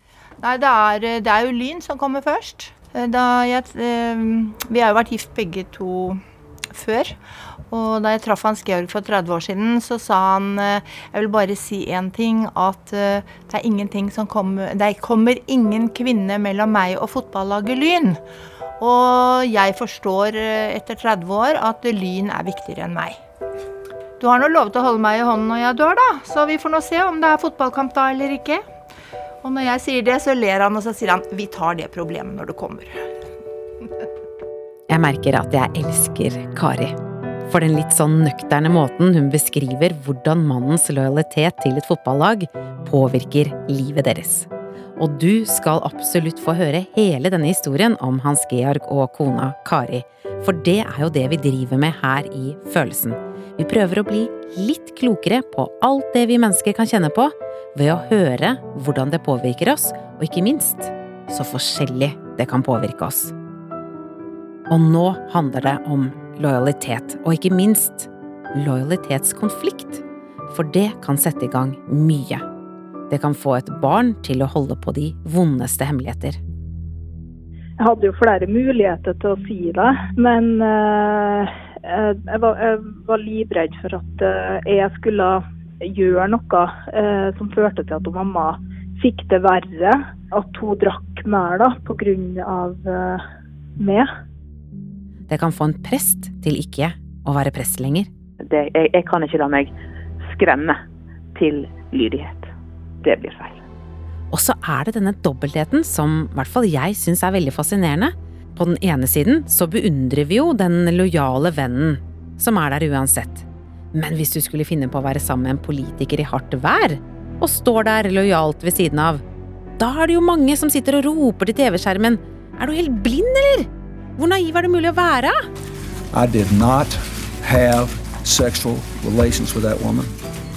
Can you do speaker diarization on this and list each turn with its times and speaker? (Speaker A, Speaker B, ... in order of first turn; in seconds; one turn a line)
Speaker A: 0.4-7.2
Speaker A: 7.7-18.2
Speaker A: 18.8-23.2
Speaker A: 24.2-28.6
Speaker A: 29.4-33.1
Speaker B: 34.9-36.9
Speaker B: 37.5-63.3
Speaker B: 64.7-72.4
Speaker B: 73.1-76.4
Speaker C: 77.8-93.2
Speaker C: 93.8-94.1
Speaker B: 95.3-98.1
Speaker D: 98.4-100.8
Speaker D: 101.3-102.5
Speaker D: 103.0-103.6
Speaker B: 104.3-119.2
Speaker B: 119.8-125.4
Speaker E: 126.1-130.1